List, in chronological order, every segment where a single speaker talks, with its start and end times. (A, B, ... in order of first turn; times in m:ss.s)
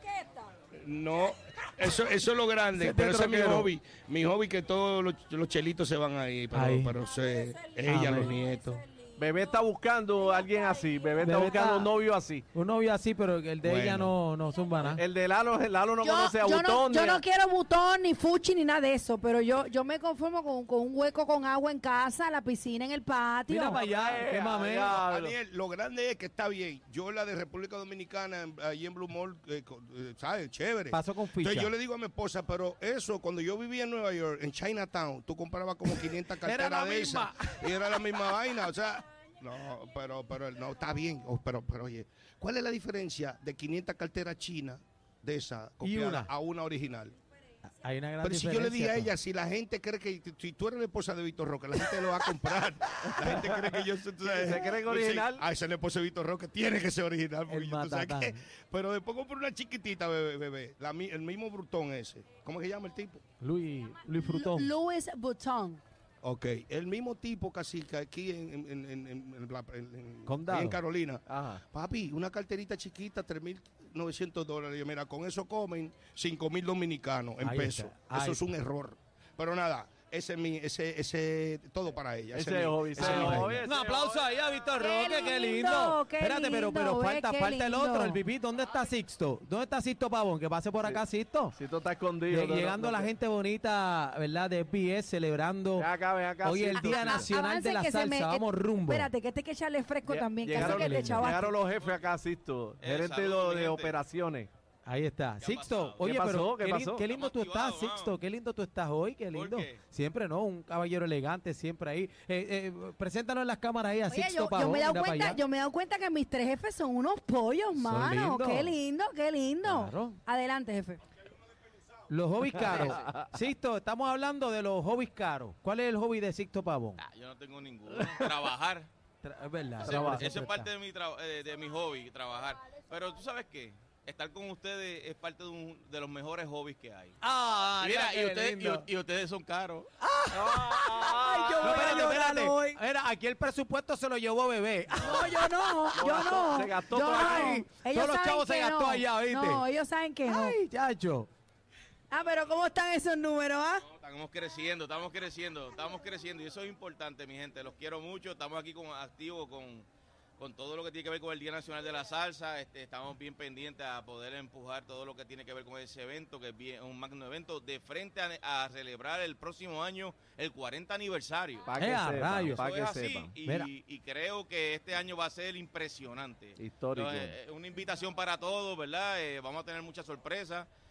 0:00.7-0:08.8 A
0:02.7-0:03.7 B
0:06.5-0:06.9 B
0:07.9-0:08.8 B
0:09.2-0:12.4 C
0:11.2-0:11.9 B
0:12.5-0:15.0 B
0:13.6-0:14.1 A
0:14.8-0:17.2 C
0:16.0-0:23.8 D
0:23.5-0:24.9 B
0:23.7-0:25.3 C
0:24.8-0:47.1 A
0:30.9-0:31.7 B
0:36.3-0:38.0 B
0:45.8-0:46.3 B
0:47.6-0:49.1 B
0:48.2-1:03.2 A
0:53.2-0:55.4 C
0:57.5-0:58.4 B
1:03.4-1:04.7 B
1:04.2-1:05.8 D
1:06.2-1:23.6 A
1:10.2-1:10.8 B
1:11.3-1:11.6 C
1:17.4-1:18.4 B
1:22.3-1:24.2 C
1:23.0-1:31.6 B
1:24.8-1:28.2 D
1:31.5-1:33.1 C
1:32.3-1:35.9 B
1:35.7-1:37.4 C
1:36.4-1:39.1 B
1:36.7-1:41.6 D
1:40.0-1:44.5 C
1:40.5-1:41.5 B
1:43.1-1:43.9 E
1:44.8-1:55.4 B
1:46.0-1:47.1 C
1:54.1-2:01.0 D
1:57.7-1:58.8 B
1:59.6-2:00.2 B
2:02.1-2:07.0 B
2:07.9-2:08.5 C
2:07.9-2:08.4 E
2:09.2-2:10.7 B
2:09.8-2:10.5 C
2:11.6-2:14.4 E
2:15.0-2:15.8 E
2:17.2-2:18.9 B
2:18.8-2:19.8 E
2:20.0-2:25.4 B
2:20.3-2:22.2 C
2:21.1-2:22.8 D
2:25.0-2:30.6 D
2:25.9-2:27.5 C
2:27.2-2:29.6 B
2:30.3-2:31.3 B
2:32.1-2:33.8 D
2:33.9-2:39.8 E
2:40.4-2:51.6 E
2:51.7-2:53.4 C
2:51.8-2:52.7 B
2:53.4-2:53.7 B
2:53.8-3:00.6 E
2:56.6-2:57.4 C